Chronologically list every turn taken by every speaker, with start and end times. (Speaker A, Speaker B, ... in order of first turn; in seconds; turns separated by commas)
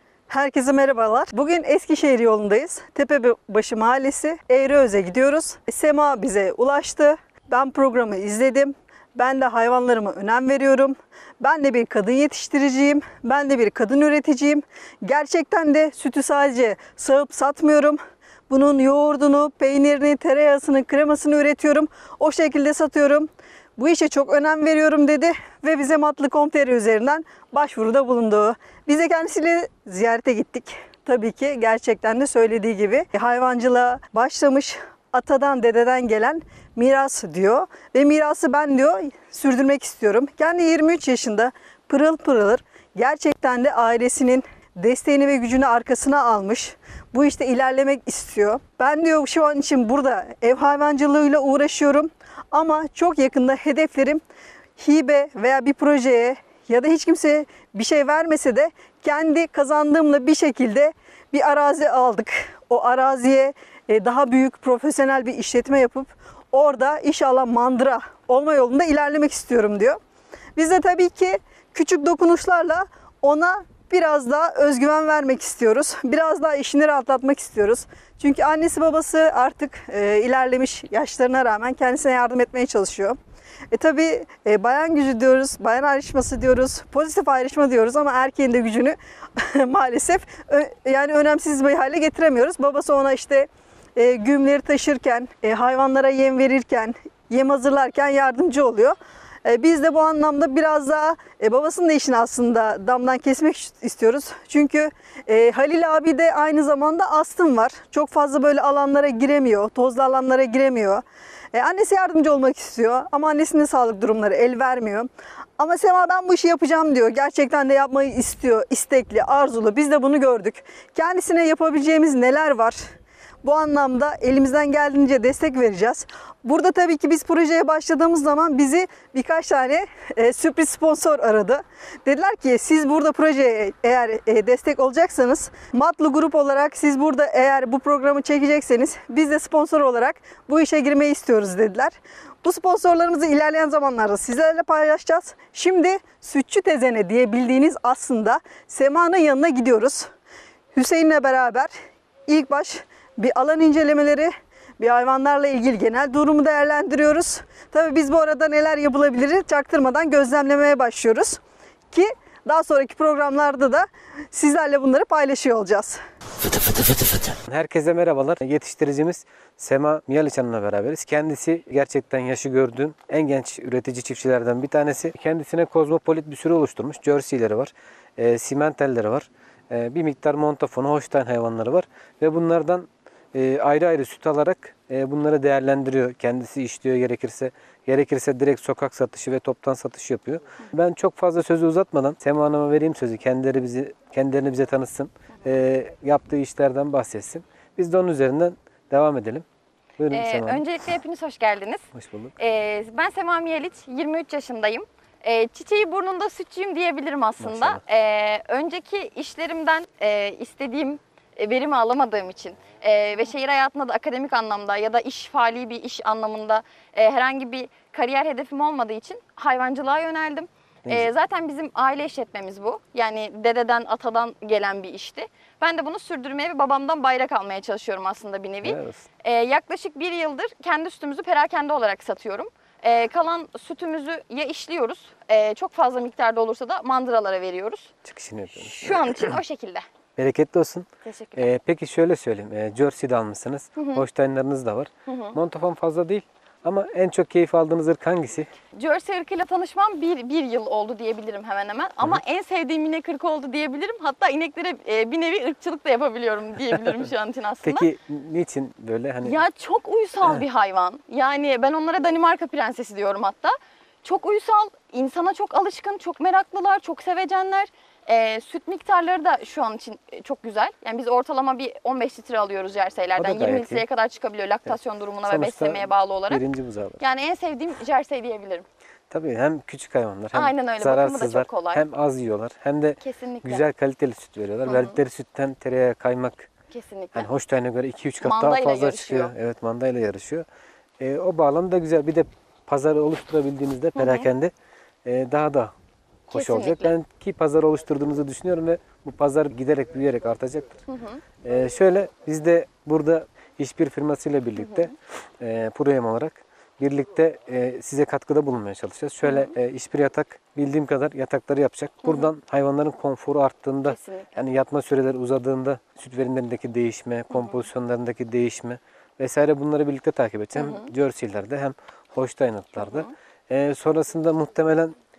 Speaker A: 0.3-54.2, Speaker A: 54.8-70.0, Speaker A: 70.5-83.2, Speaker A: 83.7-122.8, Speaker A: 123.4-150.1, Speaker A: 150.8-151.7, Speaker A: 152.3-161.4, Speaker A: 161.9-166.0, Speaker B: 167.5-199.4, Speaker B: 200.0-200.7, Speaker C: 200.1-201.8, Speaker B: 201.9-202.3, Speaker C: 202.4-237.9, Speaker B: 207.4-207.8, Speaker B: 228.6-229.1, Speaker B: 238.0-239.1, Speaker C: 238.6-239.8, Speaker B: 240.2-248.5, Speaker C: 241.1-241.5, Speaker C: 243.8-244.0, Speaker C: 245.1-245.4, Speaker C: 248.8-257.9, Speaker B: 257.6-259.4, Speaker C: 259.2-276.4, Speaker B: 273.2-273.9, Speaker B: 274.7-277.0, Speaker C: 277.0-278.6, Speaker B: 279.1-286.5, Speaker C: 280.3-281.8, Speaker C: 283.0-283.6, Speaker C: 284.7-285.0, Speaker C: 286.7-287.3, Speaker B: 287.1-290.4, Speaker C: 288.2-289.3, Speaker B: 291.0-294.5, Speaker C: 294.0-294.3, Speaker B: 295.1-295.7, Speaker B: 296.3-300.8, Speaker C: 296.3-296.9, Speaker C: 300.9-301.2, Speaker B: 301.4-324.9, Speaker C: 304.6-304.9, Speaker C: 309.2-309.5, Speaker C: 312.0-312.3, Speaker C: 313.9-314.4, Speaker C: 317.3-317.7, Speaker C: 320.6-320.9, Speaker C: 322.8-323.1